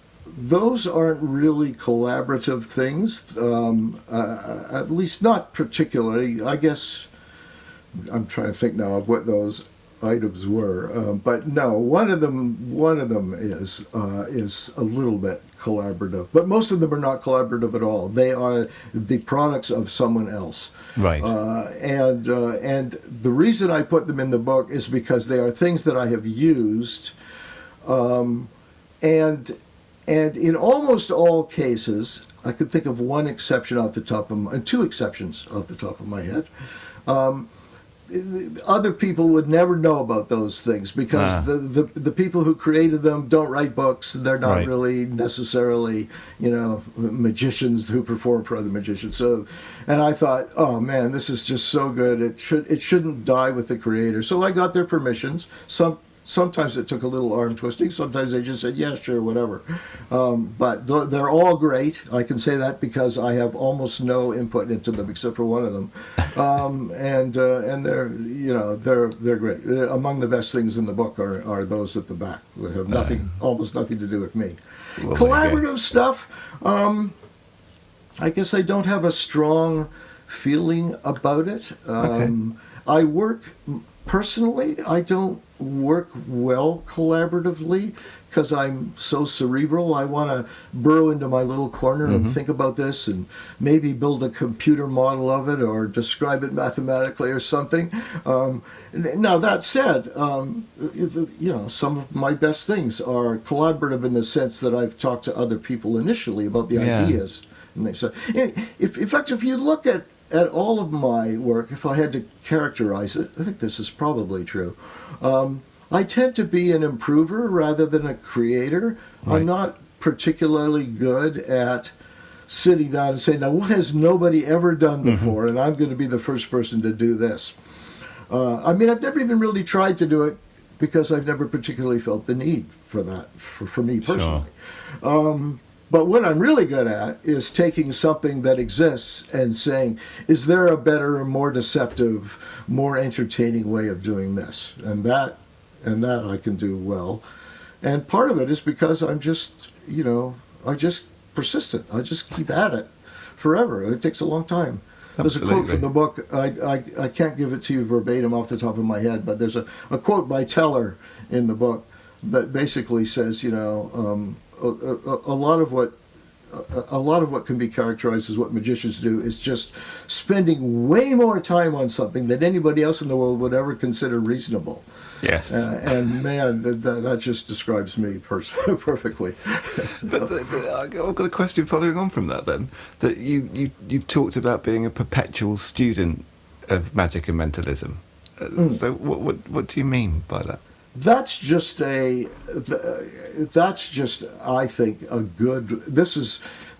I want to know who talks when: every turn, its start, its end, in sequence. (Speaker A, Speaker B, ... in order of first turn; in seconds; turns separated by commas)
Speaker A: 0.3-7.1, Speaker A: 7.9-27.1, Speaker B: 21.0-21.3, Speaker A: 27.8-28.5, Speaker A: 29.0-29.6, Speaker A: 30.1-36.5, Speaker A: 37.0-37.5, Speaker A: 38.1-74.6, Speaker B: 41.1-41.5, Speaker B: 44.4-44.7, Speaker B: 72.9-73.3, Speaker B: 75.0-75.6, Speaker A: 75.1-77.2, Speaker A: 78.2-121.9, Speaker B: 82.0-82.3, Speaker B: 92.0-92.3, Speaker B: 106.7-107.2, Speaker A: 122.5-127.6, Speaker B: 125.0-125.3, Speaker A: 128.3-147.2, Speaker B: 134.0-134.4, Speaker A: 147.8-166.0, Speaker B: 155.2-155.9, Speaker A: 166.5-174.8, Speaker B: 175.2-176.0, Speaker A: 175.5-180.4, Speaker B: 180.0-190.6, Speaker A: 190.9-196.4